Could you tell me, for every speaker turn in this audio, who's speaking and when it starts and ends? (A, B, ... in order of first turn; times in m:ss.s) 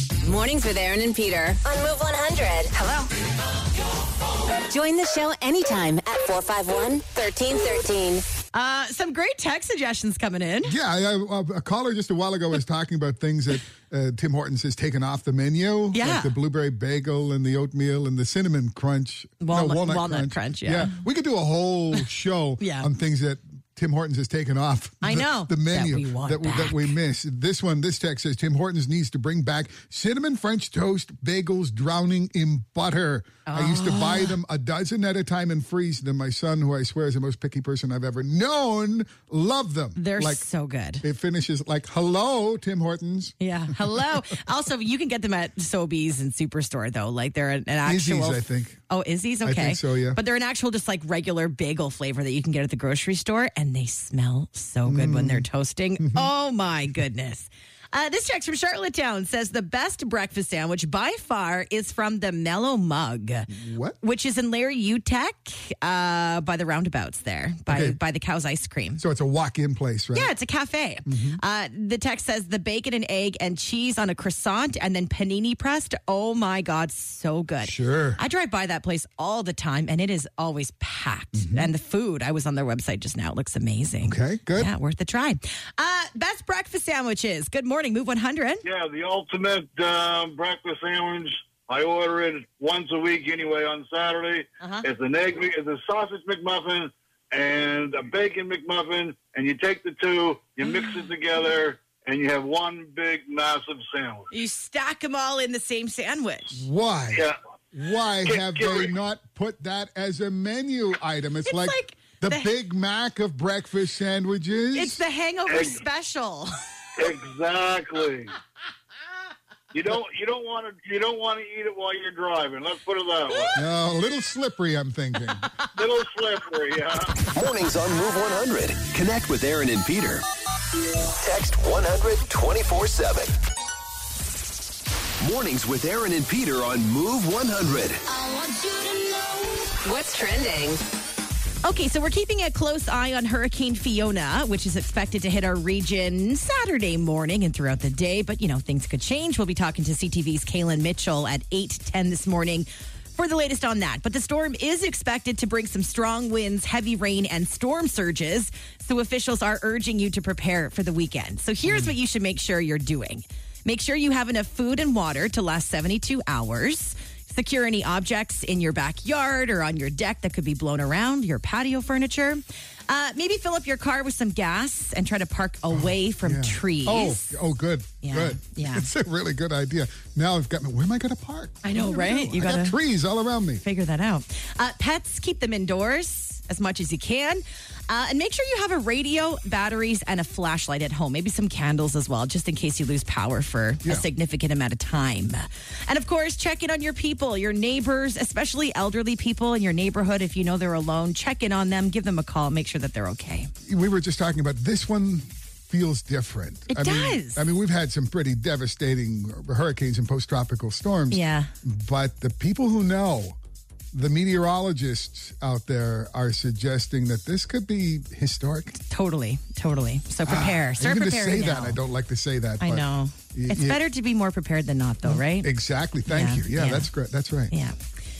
0:00.2-0:03.1 A
0:04.7-0:08.2 A
0:08.5-0:10.7 B
0:10.6-0:40.4 C
0:15.9-0:16.3 B
0:19.4-0:21.0 B
0:22.6-0:22.9 B
0:25.0-0:26.9 B
0:33.4-0:34.4 B
0:40.0-0:41.0 B
0:41.0-0:43.4 C
0:43.4-1:03.5 B
0:47.8-0:48.8 C
0:49.4-0:50.2 C
0:54.8-0:55.4 C
0:56.0-0:56.3 C
1:03.5-1:04.0 C
1:04.0-1:09.0 B
1:07.7-1:08.0 C
1:09.0-1:10.3 C
1:10.1-1:28.6 B
1:11.0-1:11.4 C
1:17.6-1:18.2 C
1:21.3-1:21.7 C
1:24.0-1:24.7 C
1:28.6-1:44.3 D
1:34.6-1:34.8 B
1:40.6-1:41.0 B
1:44.3-1:46.6 B
1:46.5-1:55.0 C
1:48.3-1:48.9 D
1:51.4-1:52.5 B
1:54.7-1:56.5 B
1:55.5-1:55.8 D
1:57.0-1:58.3 D
1:59.7-2:03.6 D
2:03.5-2:05.5 C
2:05.7-2:07.2 D
2:07.3-2:10.2 E
2:11.2-2:13.4 E
2:15.2-2:18.0 E
2:19.8-2:20.8 A
2:21.6-2:57.3 B
2:41.6-2:41.9 C
2:55.8-3:03.6 C
2:58.0-2:58.9 B
3:01.6-3:02.8 B
3:03.6-3:23.5 B
3:23.6-3:33.4 C
3:26.7-3:27.4 B
3:31.1-3:31.5 B
3:33.9-3:38.7 C
3:38.8-3:41.8 B
3:40.2-3:43.8 C
3:42.6-3:45.5 B
3:45.0-3:47.5 C
3:46.1-3:46.9 B
3:47.5-3:47.8 B